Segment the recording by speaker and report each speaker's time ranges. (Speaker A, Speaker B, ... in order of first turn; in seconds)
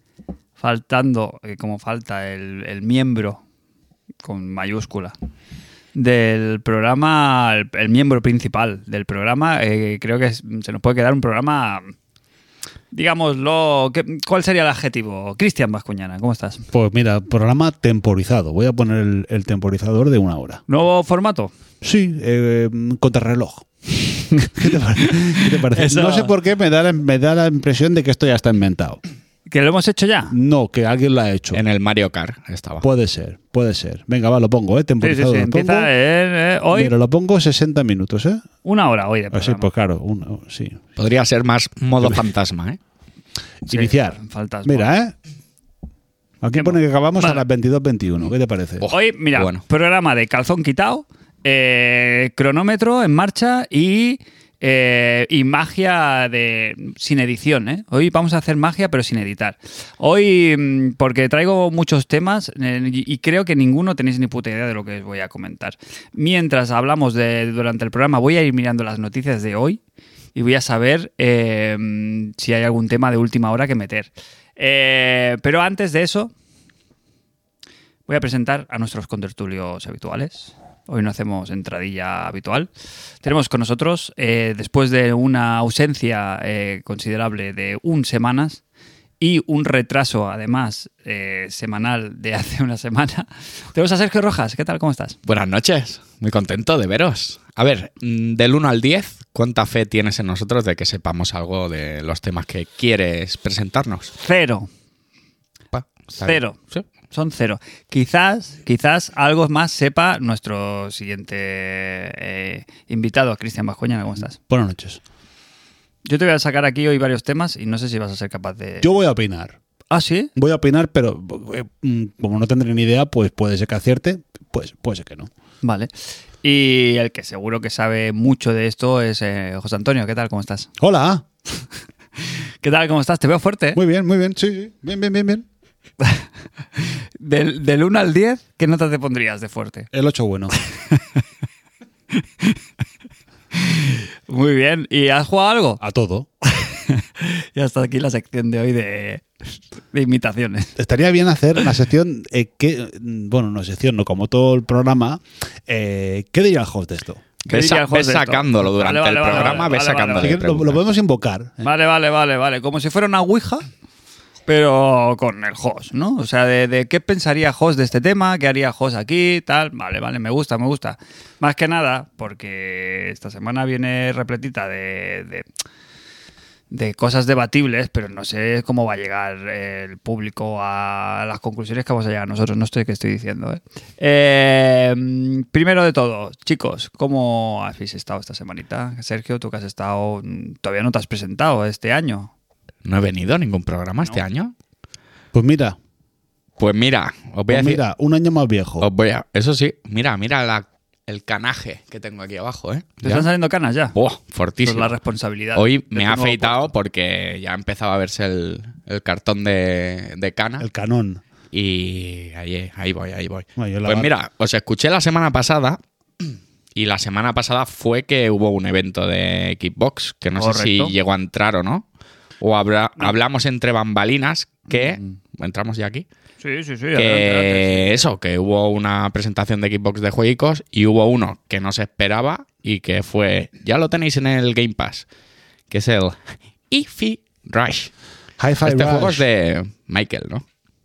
Speaker A: 0.6-3.4, 4.2-5.2, 5.9-11.9, 12.9-16.7, 20.7-21.5, 24.4-26.3, 29.5-30.3, 35.0-36.9, 38.6-39.7, 43.7-44.9, 46.6-47.4, 48.9-69.8, 70.3-76.3, 78.1-82.7, 83.2-88.6, 89.2-95.2, 104.2-104.7, 106.2-114.4, 116.0-118.9, 119.9-120.3, 125.6-125.9, 126.4-130.7, 132.6-133.8, 136.8-139.9, 140.5-141.2, 143.5-145.8, 146.4-149.2, 149.9-150.8, 157.4-160.4, 161.6-163.7, 164.5-175.5, 176.7-192.3, 203.0-203.9, 204.6-206.7, 220.4-220.9, 226.4-228.1
Speaker B: 16.7-20.6, 21.8-29.0, 30.3-31.6, 32.8-35.9, 36.7-38.5, 39.3-40.8, 42.0-42.2, 43.6-45.1, 46.4-48.9, 114.4-115.0, 118.8-119.6, 120.3-125.3, 130.8-131.2, 133.8-135.5, 139.9-140.6, 145.8-146.3, 150.8-157.2, 160.2-161.7, 195.3-195.8, 197.5-198.9, 210.6-211.2, 213.6-214.1, 238.4-239.2
Speaker C: 31.5-32.9, 41.0-42.8, 48.8-49.6, 95.2-104.1, 105.7-106.8, 157.5-160.8, 192.8-194.5, 196.6-197.8, 198.8-203.3, 203.9-205.0, 205.6-210.7, 211.5-221.8, 222.4-226.1, 227.0-235.1, 235.7-236.2, 236.7-237.9, 238.7-240.4